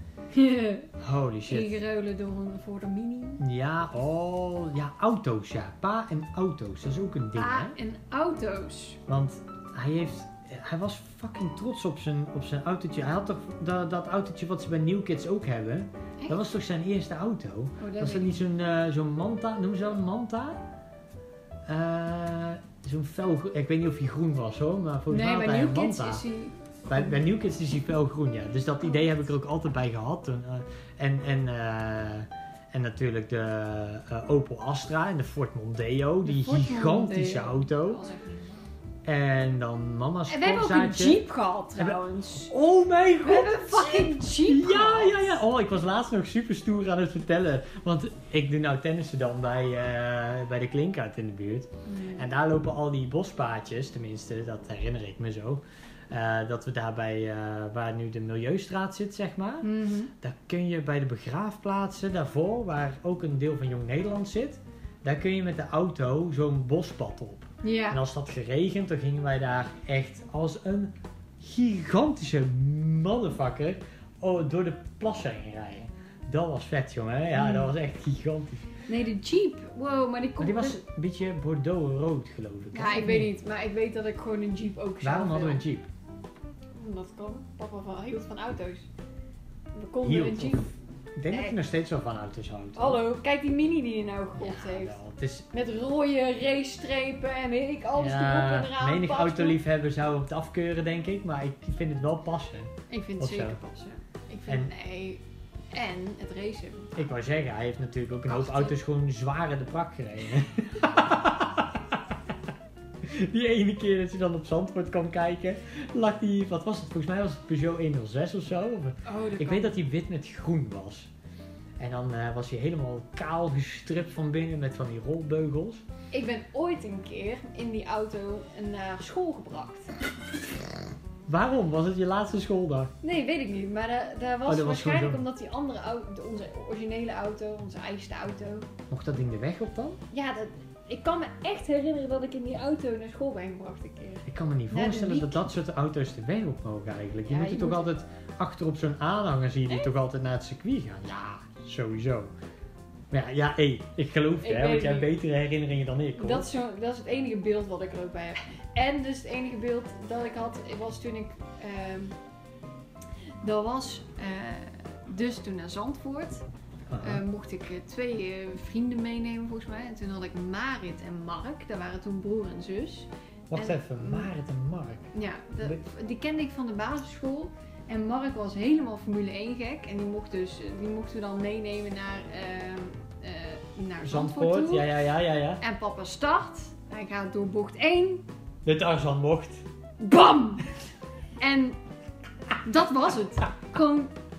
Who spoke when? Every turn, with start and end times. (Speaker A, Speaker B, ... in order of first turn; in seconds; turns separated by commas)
Speaker A: 0.3-0.9, Speaker B: 1.0-1.8, Speaker A: 1.5-3.4, Speaker B: 3.4-7.8, Speaker A: 7.3-9.0, Speaker B: 9.1-20.6, Speaker A: 17.8-18.4, Speaker B: 21.7-26.2, Speaker A: 25.1-27.2, Speaker B: 26.9-38.0, Speaker A: 36.2-38.7, Speaker B: 39.0-41.2, Speaker A: 40.3-42.5, Speaker B: 41.8-78.7, Speaker A: 43.2-45.4, Speaker A: 51.9-52.3, Speaker A: 59.6-60.1, Speaker A: 67.6-68.0, Speaker A: 77.3-77.7, Speaker A: 78.9-80.8, Speaker B: 80.4-83.3, Speaker A: 82.7-85.6, Speaker B: 85.0-85.9, Speaker A: 86.8-88.9, Speaker A: 89.7-90.7, Speaker B: 90.0-93.0, Speaker A: 91.3-91.6, Speaker A: 92.8-95.0, Speaker B: 94.4-95.5, Speaker A: 95.5-99.6, Speaker B: 98.0-103.6, Speaker A: 102.9-107.0, Speaker B: 107.0-112.0, Speaker A: 108.3-108.7, Speaker B: 113.0-121.1, Speaker A: 119.0-119.8, Speaker B: 121.8-125.8, Speaker A: 126.1-129.9, Speaker B: 131.3-132.9, Speaker A: 133.0-138.7, Speaker B: 134.5-135.2, Speaker B: 138.9-140.0, Speaker A: 140.1-145.4, Speaker B: 144.3-152.3, Speaker A: 147.3-147.9, Speaker B: 153.1-156.5, Speaker A: 154.4-155.1, Speaker A: 156.2-162.2, Speaker A: 163.4-166.4, Speaker B: 166.9-167.2, Speaker A: 167.0-174.3, Speaker B: 173.5-175.1, Speaker A: 175.1-184.9, Speaker B: 184.0-185.6, Speaker A: 185.6-188.2, Speaker B: 188.7-189.6, Speaker A: 190.0-190.7, Speaker A: 191.4-191.8, Speaker A: 192.6-194.1